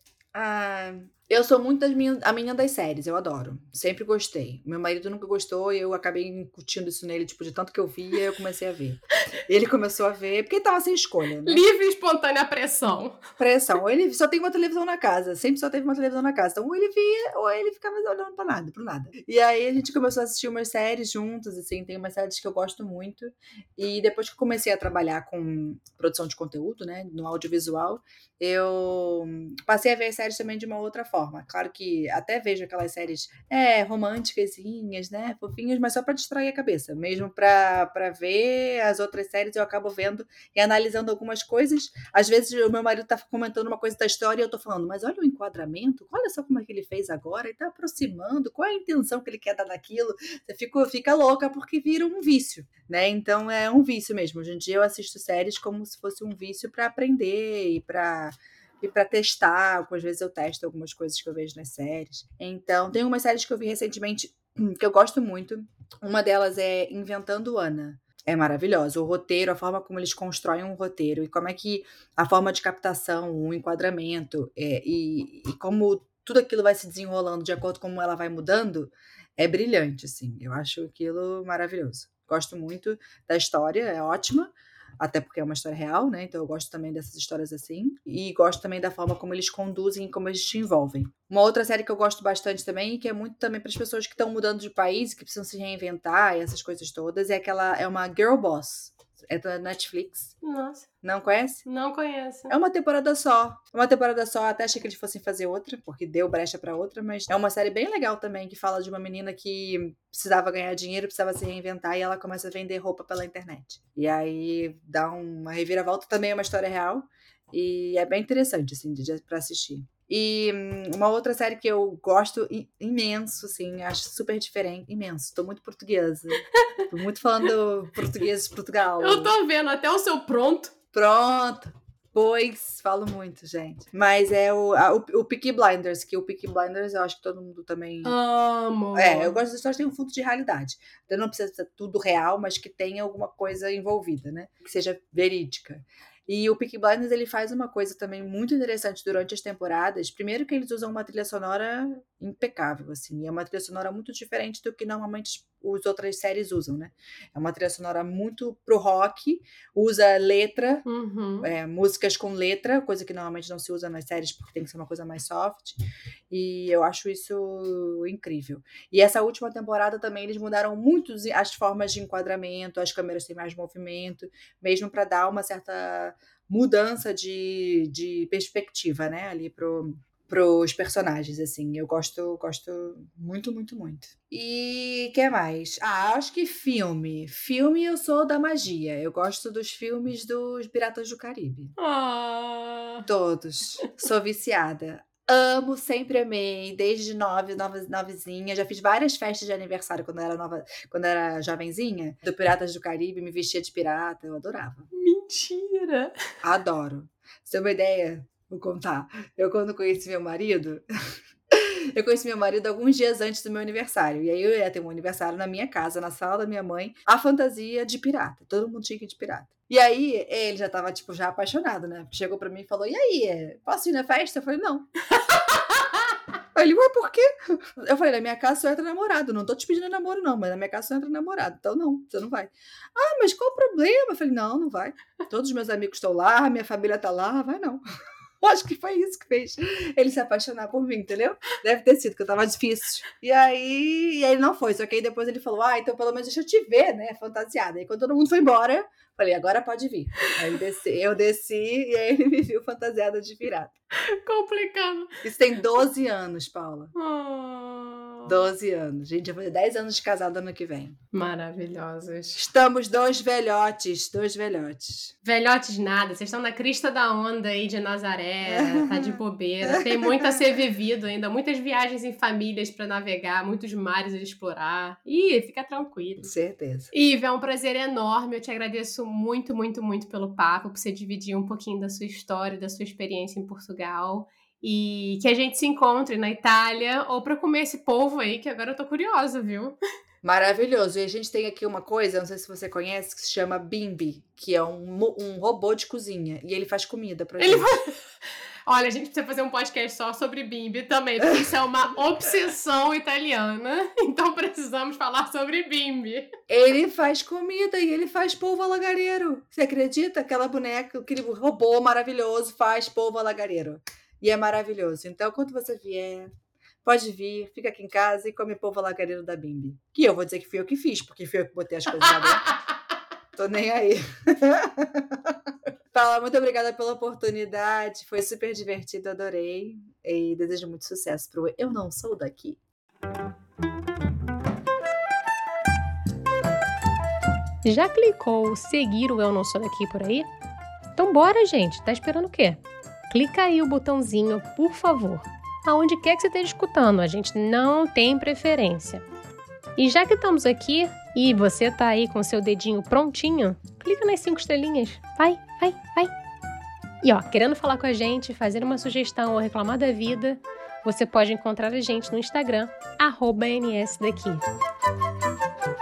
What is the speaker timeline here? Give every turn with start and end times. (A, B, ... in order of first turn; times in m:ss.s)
0:00.3-0:11.6 A
0:11.4-0:13.2 B
0:13.4-1:40.4 A
1:40.4-1:40.9 B
1:41.0-1:41.6 A
1:41.6-1:42.6 B
1:42.5-2:09.3 A
2:09.0-2:10.7 B
2:10.9-2:18.2 A
2:18.0-2:19.4 B
2:18.9-2:40.8 A
2:40.9-2:41.5 B
2:41.4-2:45.8 A
2:46.3-3:11.8 A
3:11.8-3:13.1 B
3:13.1-3:24.9 A
3:24.9-3:26.1 B
3:26.4-3:30.8 A
3:31.5-3:44.9 A
3:45.4-3:45.8 B
3:46.6-3:57.8 A
3:58.4-4:13.8 A
4:14.0-4:15.1 B
4:15.2-4:16.9 A
4:17.0-4:18.4 B
4:18.2-4:21.0 A
4:21.1-4:22.4 B
4:22.4-4:25.1 A
4:25.2-4:36.3 B
4:28.5-4:30.4 A
4:36.2-4:36.9 A
4:36.9-4:49.8 B
4:50.2-4:57.7 A
4:57.4-4:58.0 B
4:58.7-5:06.3 B
5:01.2-5:01.5 A
5:06.5-5:16.3 A
5:16.8-5:22.5 A
5:23.4-5:25.4 A
5:25.9-5:32.6 A
5:37.6-5:40.3 B
5:41.0-5:49.0 B
5:49.8-5:56.1 B
5:57.0-6:04.5 B